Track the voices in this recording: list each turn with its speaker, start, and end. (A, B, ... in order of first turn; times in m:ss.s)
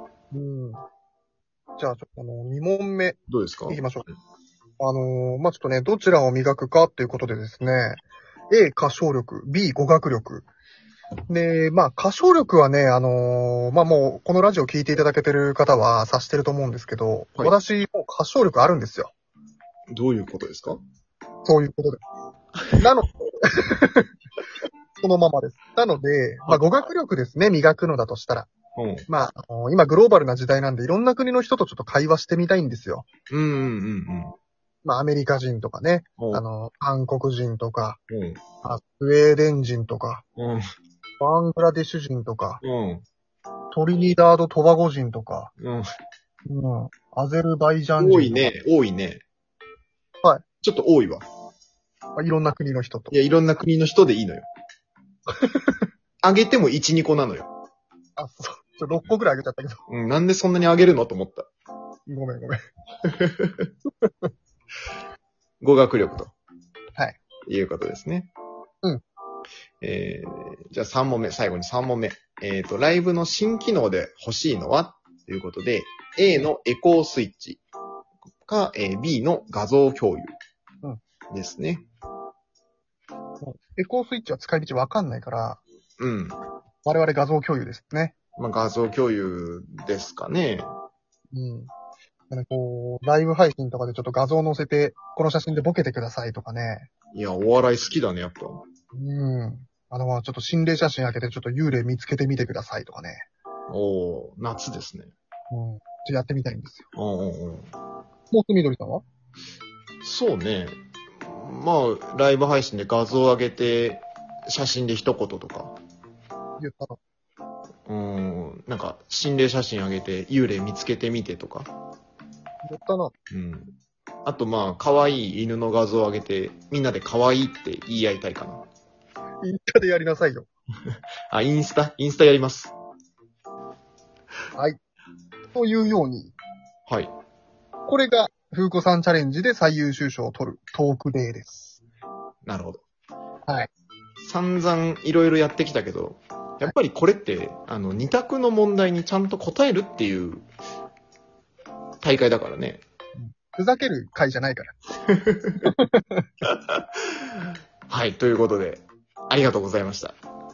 0:00.3-0:00.8 A
0:01.8-0:04.0 A
0:03.3-0:03.8 B
0:04.8-0:10.4 A
0:11.3-0:19.1 A
0:19.9-0:20.8 B
0:21.4-0:22.0 A
0:22.8-0:24.1 A
0:25.0-0:28.5 A
0:28.8-0:29.0 B
0:29.1-0:33.0 A
0:33.3-0:34.3 B
0:34.8-0:38.0 A
0:38.1-0:38.4 B
0:38.6-0:40.2 A
0:40.4-0:40.6 B
0:41.2-0:42.6 A
0:42.6-0:43.0 B
0:43.7-0:45.5 A
0:45.6-0:45.8 B
0:46.5-0:48.5 A
0:48.0-0:49.2 B
0:50.6-0:51.2 B
0:52.2-0:53.1 A
0:53.1-0:54.5 B
0:55.3-0:55.8 A
0:56.2-0:57.5 B
0:58.2-0:59.8 A
0:59.9-1:01.5 B
1:02.1-1:02.6 A
1:03.0-1:03.7 B
1:05.6-1:06.3 B
1:07.4-1:08.3 B
1:09.8-1:17.6 B
1:18.4-1:20.4 B
1:21.3-1:21.8 B
1:23.4-1:25.6 A
1:26.0-1:26.4 B
1:26.8-1:28.2 A
1:28.4-1:30.7 B
1:31.3-1:31.7 A
1:32.3-1:36.9 A
1:37.1-1:38.6 B
1:38.9-1:43.3 A
1:43.7-1:45.1 B
1:45.5-1:46.9 A
1:46.9-1:47.7 B
1:48.3-1:49.0 A
1:50.0-1:55.7 B
1:56.6-1:57.0 A
1:57.9-2:01.7 B
2:02.6-2:03.1 A
2:03.3-2:03.7 B
2:04.2-2:08.6 B
2:09.4-2:10.5 A
2:11.3-2:12.7 B
2:15.5-2:16.3 A
2:16.9-2:17.1 B
2:17.9-2:21.8 A
2:22.4-2:22.8 B
2:24.2-2:30.5 B
2:32.0-2:32.8 B
2:33.2-2:34.7 A
2:35.1-2:35.6 B
2:35.6-2:36.2 A
2:36.4-2:36.8 B
2:37.9-2:40.1 B